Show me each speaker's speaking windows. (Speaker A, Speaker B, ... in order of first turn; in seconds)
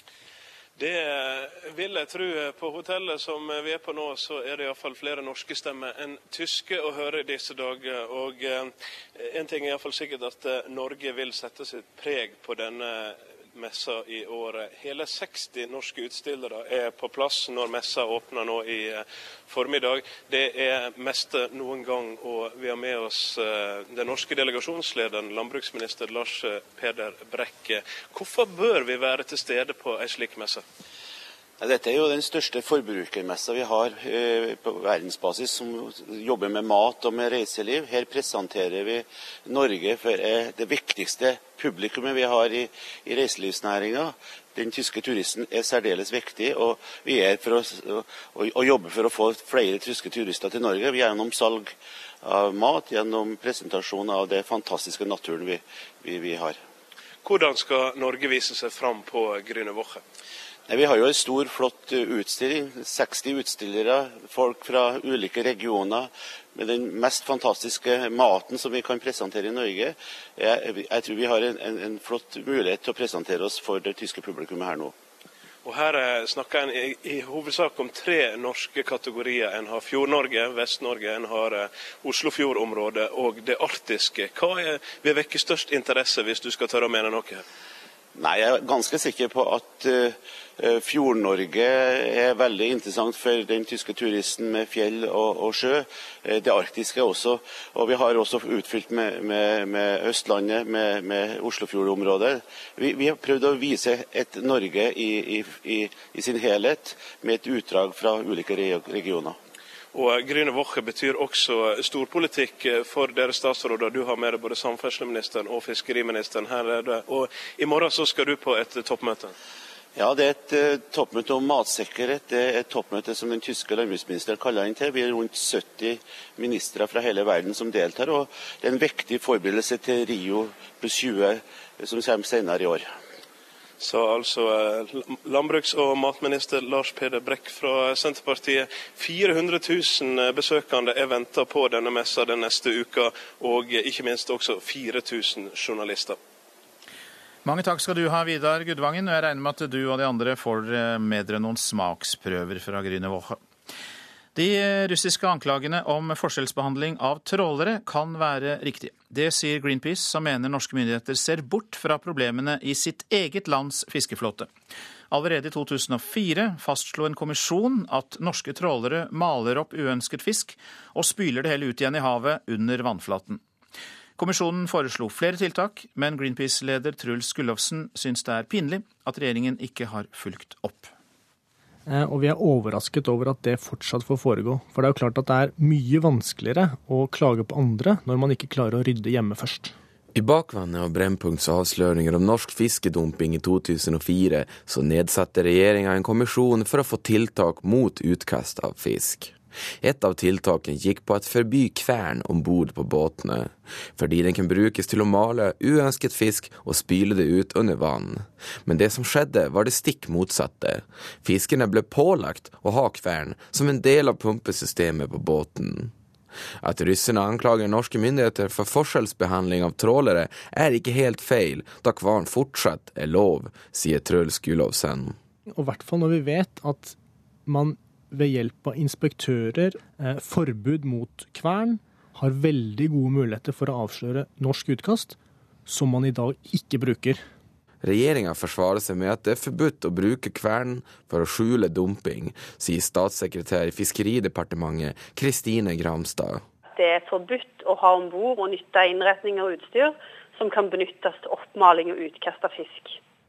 Speaker A: 0.8-30.6, 57.2-60.0, 75.6-87.4, 109.9-119.3, 133.8-146.2
Speaker B: 31.6-56.6, 60.7-74.9, 88.2-109.4, 120.0-132.9
Speaker C: 147.4-153.4, 154.3-164.5, 165.1-173.4, 174.2-180.9
Speaker D: 181.9-189.7, 225.5-237.2
Speaker E: 190.1-215.9, 216.6-225.2, 237.8-246.4
Speaker F: 246.8-253.0